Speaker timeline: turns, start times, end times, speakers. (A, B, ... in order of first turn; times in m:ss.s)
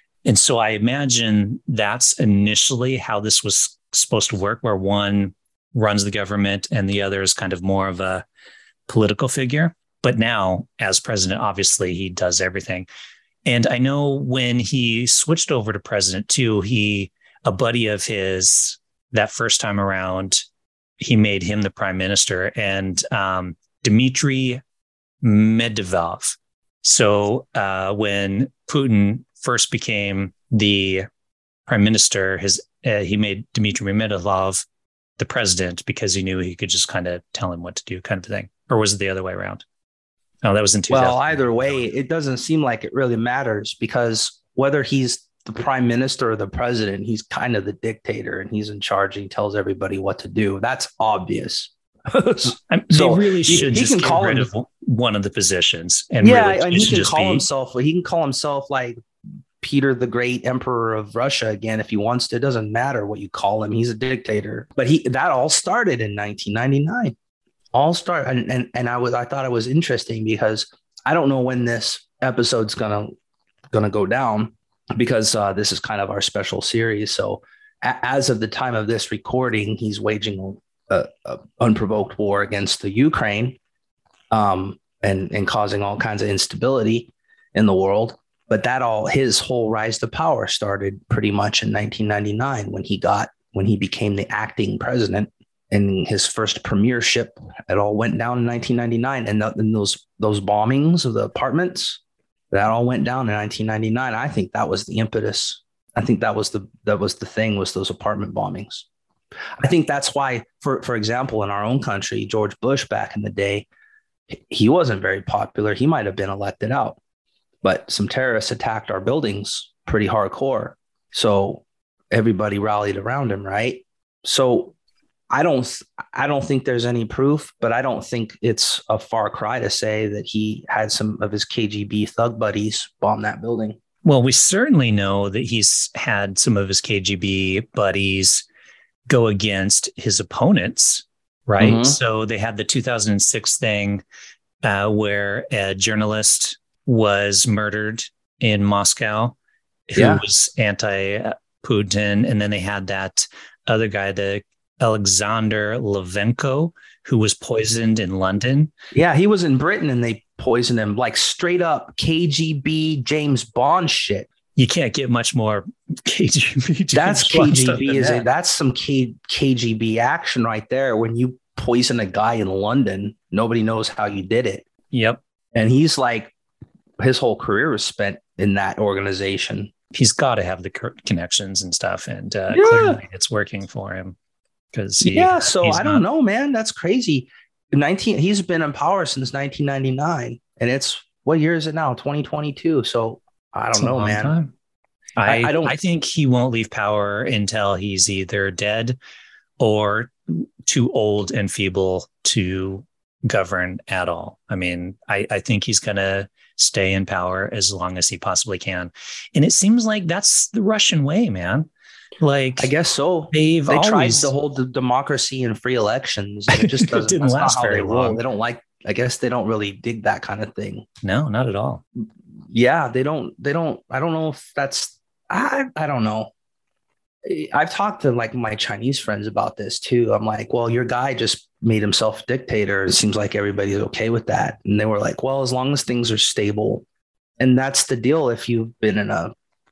0:00.2-0:08.2 A
0:08.9-0:12.9 A
0:13.4-0:20.4 A
0:21.0-0:24.6 A
0:25.2-0:31.1 A
0:31.7-0:34.6 A
0:35.2-0:39.6 A
0:40.4-0:41.9 A
0:40.9-0:54.5 B
0:52.7-0:57.5 A
0:56.2-0:59.0 B
0:59.6-1:07.1 B
1:07.7-1:13.1 B
1:13.7-1:23.6 B
1:24.3-1:42.0 B
1:42.5-1:48.9 B
1:49.6-1:53.7 B
1:54.3-1:57.0 B
1:57.6-2:04.7 B
2:05.3-2:13.8 B
2:14.0-2:18.5 A
2:19.1-2:24.0 A
2:21.6-2:22.0 B
2:24.6-2:29.4 A
2:29.9-2:38.7 A
2:30.0-2:30.2 B
2:38.9-2:44.3 B
2:44.6-2:48.3 A
2:46.9-2:54.7 B
2:54.9-2:55.2 A
2:55.6-2:56.3 B
2:57.0-2:59.7 B
2:59.9-3:04.2 A
3:02.5-3:03.0 B
3:04.7-3:06.0 A
3:05.0-3:14.4 B
3:13.8-3:14.5 A
3:15.2-3:19.0 A
3:15.3-3:15.8 B
3:19.6-3:31.7 A
3:32.2-3:32.7 A
3:32.6-3:40.9 B
3:33.3-3:34.3 A
3:36.5-3:38.2 A
3:41.0-3:41.8 A
3:42.5-3:46.3 B
3:47.2-3:56.8 B
3:57.4-3:59.3 B